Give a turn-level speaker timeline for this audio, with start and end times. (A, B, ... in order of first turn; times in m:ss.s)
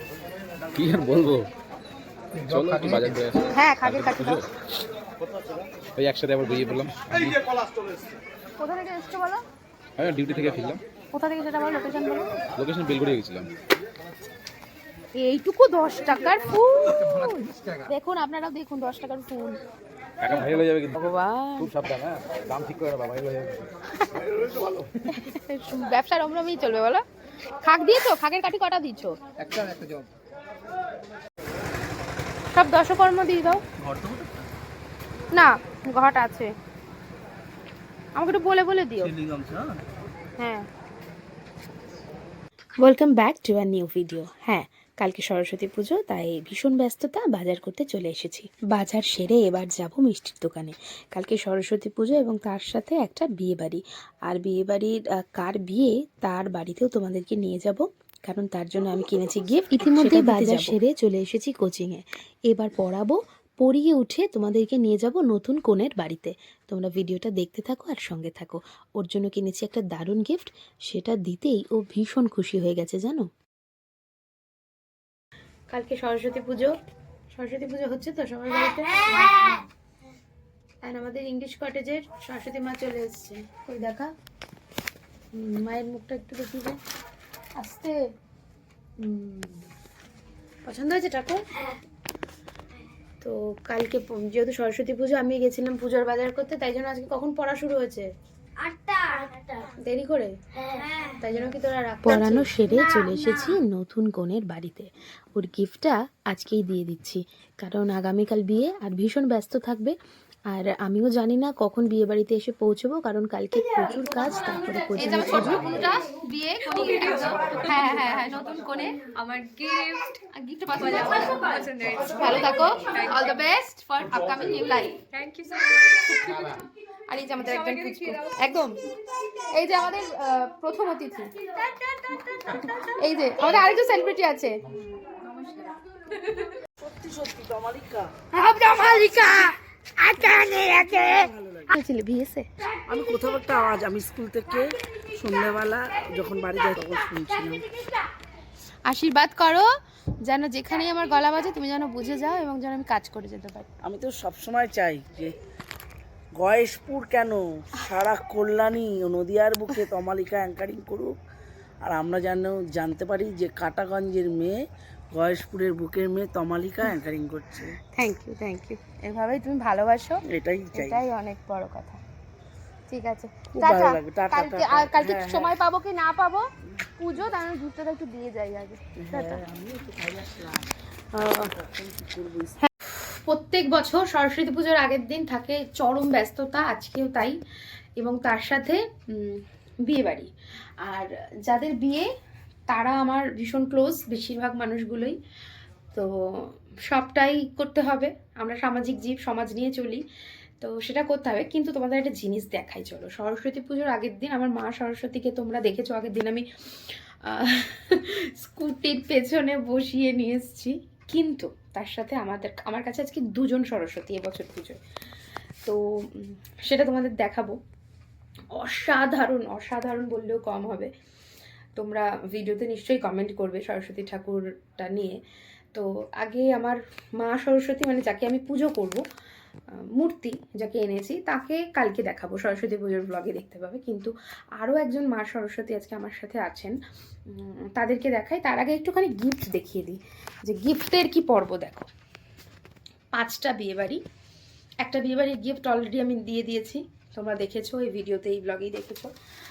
0:00.7-0:01.5 A
0:02.4-0:04.4 A
0:03.6-0:04.2 B
0:03.8-0:04.4 C
0:06.0-0:07.4 A
0:08.6-0:09.4 B
0:10.0-0:10.8 A
0:11.1-0:12.3 B
0:11.5-0:11.9 C
0:12.6-0:13.5 A
0:15.2-0:19.6 B
0:15.9-0:17.2 C
0:17.9-0:18.7 C
0:20.2-0:23.7 A
0:21.0-0:21.7 B
0:24.5-0:24.9 A
0:25.1-0:26.9 B
0:25.7-0:27.0 C
0:27.7-0:29.0 B
0:27.7-0:29.1 C
0:32.5-0:33.5 B
0:33.8-0:34.4 D
0:35.3-0:36.5 B
0:38.2-0:38.9 B
0:38.3-0:38.8 C
0:39.0-0:39.8 D
0:40.4-0:40.6 B
0:42.8-1:13.3 B
0:59.8-1:00.8 D
1:15.7-1:16.7 B
1:17.3-1:19.4 B
1:20.8-1:24.1 B
1:25.3-1:26.8 B
1:27.6-1:27.9 B
1:29.0-1:29.6 B
1:30.6-1:31.4 B
1:33.2-1:38.1 B
1:38.6-1:39.7 C
1:39.7-1:40.3 B
1:41.2-1:49.9 B
1:41.8-1:43.2 C
1:50.5-1:59.0 B
1:55.0-2:03.5 C
2:00.3-2:05.1 B
2:04.1-2:06.3 C
2:06.3-2:06.5 B
2:07.1-2:08.8 B
2:07.1-2:08.7 C
2:09.6-2:11.0 B
2:09.6-2:11.8 C
2:12.5-2:14.5 B
2:12.5-2:14.4 C
2:16.8-2:18.1 D
2:18.3-2:21.2 B
2:20.4-2:21.7 D
2:21.7-2:22.5 B
2:22.8-2:27.7 D
2:28.9-2:29.7 B
2:30.2-2:33.7 B
2:33.8-2:35.3 D
2:36.4-2:41.1 D
2:41.8-2:44.6 D
2:45.1-2:47.8 D
2:47.9-2:50.2 B
2:50.3-2:51.1 D
2:50.8-2:52.0 B
2:52.9-2:53.9 B
2:53.5-2:55.6 D
2:54.6-2:56.4 B
2:57.0-2:59.4 B
2:59.0-3:02.6 D
3:01.2-3:01.5 B
3:02.8-3:07.4 B
3:08.0-3:10.3 B
3:10.8-3:12.1 B
3:12.7-3:15.2 B
3:15.9-3:20.0 B
3:20.6-3:34.8 B
3:35.6-3:37.6 B
3:38.5-3:40.9 B
3:41.8-3:45.2 B
3:45.7-3:49.0 B
3:49.9-3:56.8 B
3:57.3-4:01.9 B
4:03.1-4:04.0 B
4:04.8-4:09.1 B